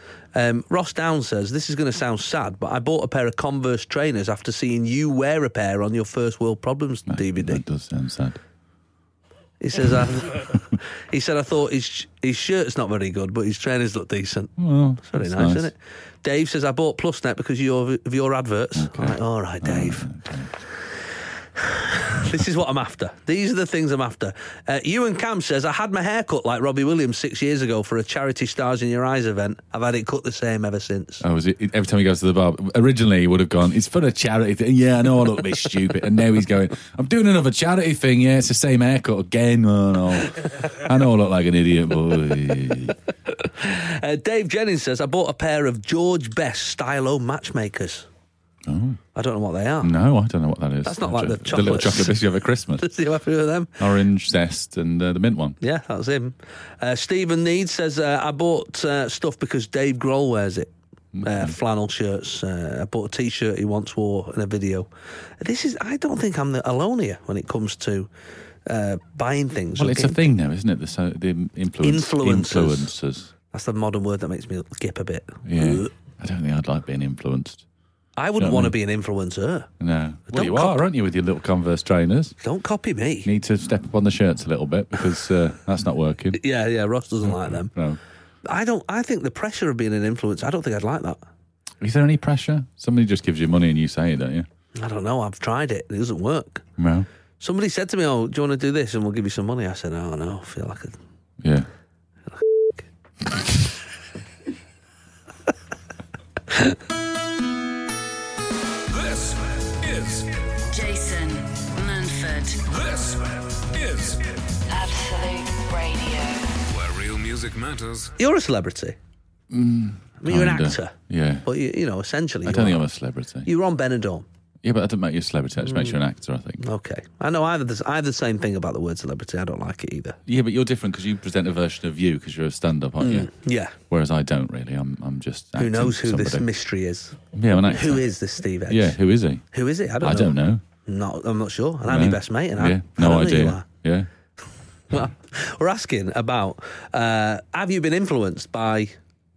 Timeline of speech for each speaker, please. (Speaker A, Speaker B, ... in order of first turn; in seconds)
Speaker A: 0.3-7.6, 9.6-20.1, 21.6-31.2, 43.4-48.1, 49.1-49.9, 50.8-52.2, 52.8-53.8, 55.6-60.7, 61.2-64.9, 65.4-68.1, 68.7-70.2, 71.8-72.9, 73.5-75.9, 78.2-79.7, 80.3-80.9, 82.4-83.3, 86.3-87.7, 88.5-91.2, 94.8-96.7, 97.4-101.0, 102.3-102.9, 118.2-119.0, 120.2-122.9, 123.5-124.3, 125.7-126.0, 126.6-130.2, 133.0-133.8, 135.6-139.0, 139.5-143.7, 144.9-149.0
Speaker B: 7.1-8.4, 14.6-15.7, 18.8-20.5, 31.2-43.0, 48.6-49.0, 49.8-52.9, 53.8-55.6, 61.1-61.5, 69.8-73.3, 75.5-77.6, 78.4-78.7, 79.8-82.3, 83.2-86.4, 87.2-88.0, 91.8-94.5, 96.8-97.1, 101.4-101.7, 119.5-121.5, 122.4-123.5, 124.6-126.6, 130.3-136.5, 137.3-138.1, 138.7-139.4, 140.0-140.6, 141.9-144.1
Speaker C: 108.9-110.6, 112.7-114.6, 116.7-118.2
Speaker D: 110.7-112.6, 114.7-116.6